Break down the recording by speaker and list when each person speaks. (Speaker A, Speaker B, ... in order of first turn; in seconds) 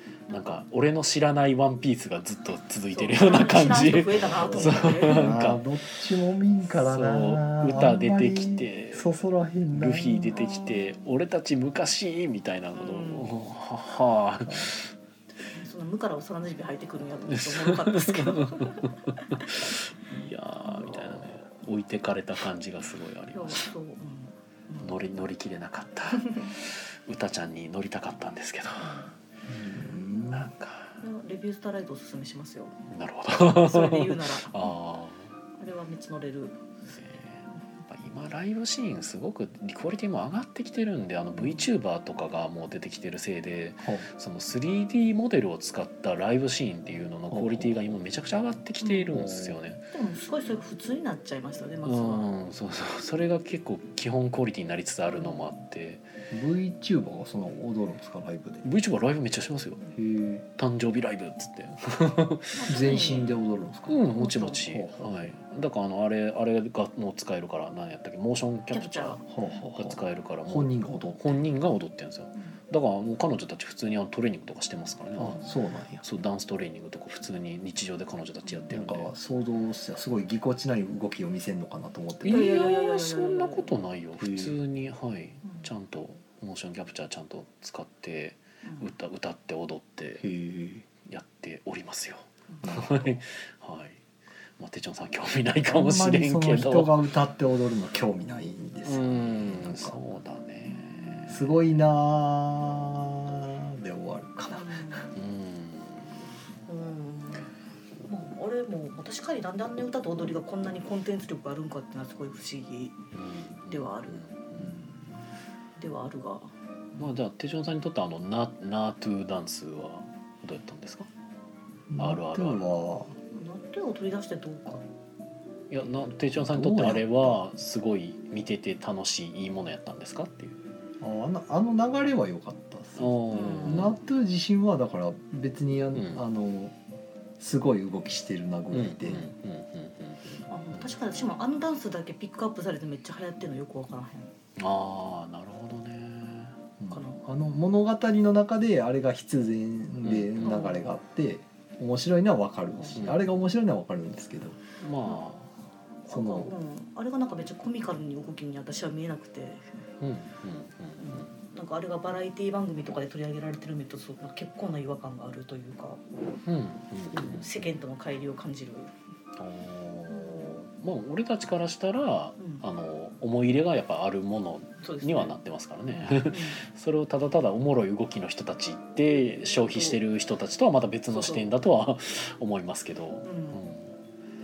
Speaker A: 0.3-5.6, 6.7-9.1, 9.7-14.9, 17.3-23.7, 24.8-29.0, 30.2-31.0, 32.9-35.3, 36.9-49.8, 51.8-56.0, 58.6-59.8, 60.6-62.7, 63.9-75.5, 76.0-79.1, 82.2-90.3, 91.0-94.0, 94.6-97.0, 98.8-101.4, 105.1-106.3, 113.1-114.8, 117.0-121.1, 122.0-122.6, 125.7-130.6, 133.0-134.0, 135.9-136.2, 138.7-140.5, 144.6-146.6, 150.0-150.7, 152.9-153.2, 154.8-155.5, 160.0-161.3, 166.4-167.5, 169.4-183.9
Speaker B: 2.9-5.3, 10.3-11.0, 12.7-13.3, 15.4-19.7, 20.6-21.4, 23.3-25.0, 28.8-29.1, 31.0-32.8, 33.6-34.7, 35.6-36.6, 48.8-49.2, 49.9-52.3, 55.1-55.4, 62.5-63.3, 64.1-64.6, 68.7-69.2, 82.2-83.8, 100.7-101.3, 104.5-105.2, 106.7-107.5, 108.0-113.0, 113.7-114.2, 115.8-117.1, 123.3-124.8, 133.3-133.9, 140.5-144.3, 146.9-147.2, 150.4-150.9, 152.8-153.1, 156.0-159.7, 161.0-166.0, 167.2-168.9, 170.1-170.5, 172.4-172.6, 174.8-175.3, 175.9-176.6, 179.7-180.0, 181.1-181.5, 183.2-183.6
Speaker C: 4.3-10.4, 14.4-14.7, 29.5-30.5, 43.8-44.1, 47.3-47.8, 49.1-49.6, 56.3-58.6, 60.0-60.5, 62.7-65.3, 69.3-71.4, 75.2-76.0, 78.7-82.7, 84.2-84.6, 90.2-90.9, 92.6-93.2, 95.7-100.0, 101.3-105.0, 121.9-123.1, 126.3-127.4, 131.0-136.8, 137.4-139.3, 146.8-154.6, 156.1-156.5